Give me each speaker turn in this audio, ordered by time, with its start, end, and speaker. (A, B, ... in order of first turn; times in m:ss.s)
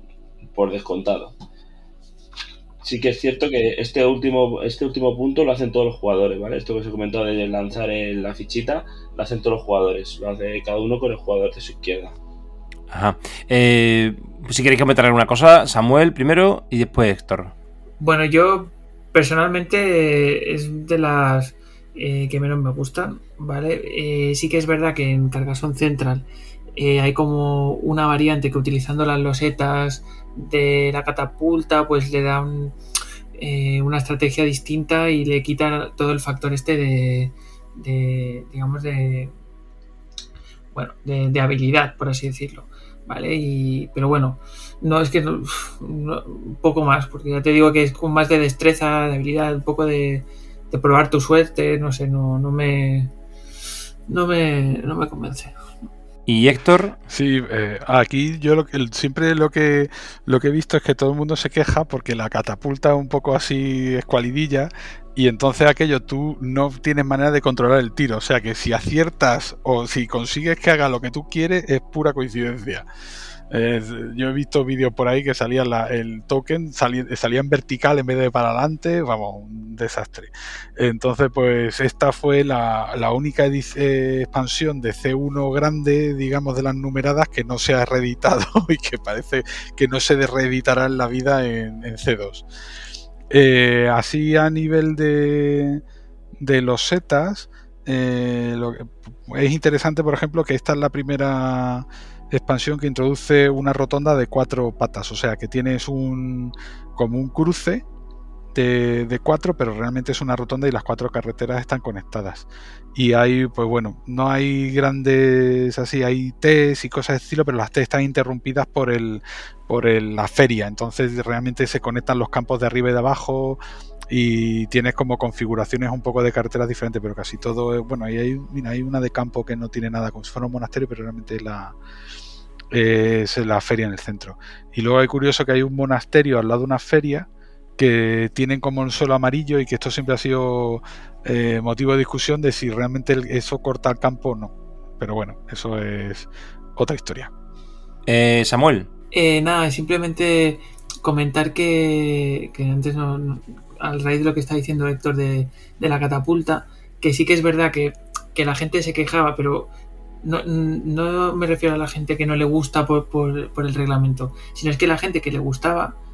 0:00.5-0:01.4 A
0:02.8-0:12.2 A
0:12.9-0:17.5 B
0:18.0-0:32.8 C
0:33.4-0:39.3 C
0:40.7-0:53.1 C
0:54.1-0:55.5 C
0:56.3-0:57.0 B
0:57.1-1:12.9 D
1:13.5-1:32.5 D
1:33.3-1:35.8 D
1:36.4-1:47.8 D
1:48.5-2:03.6 D
2:04.1-2:11.8 D
2:12.7-2:27.3 D
2:28.1-2:28.9 B
2:29.1-2:39.7 C
2:40.2-2:46.0 C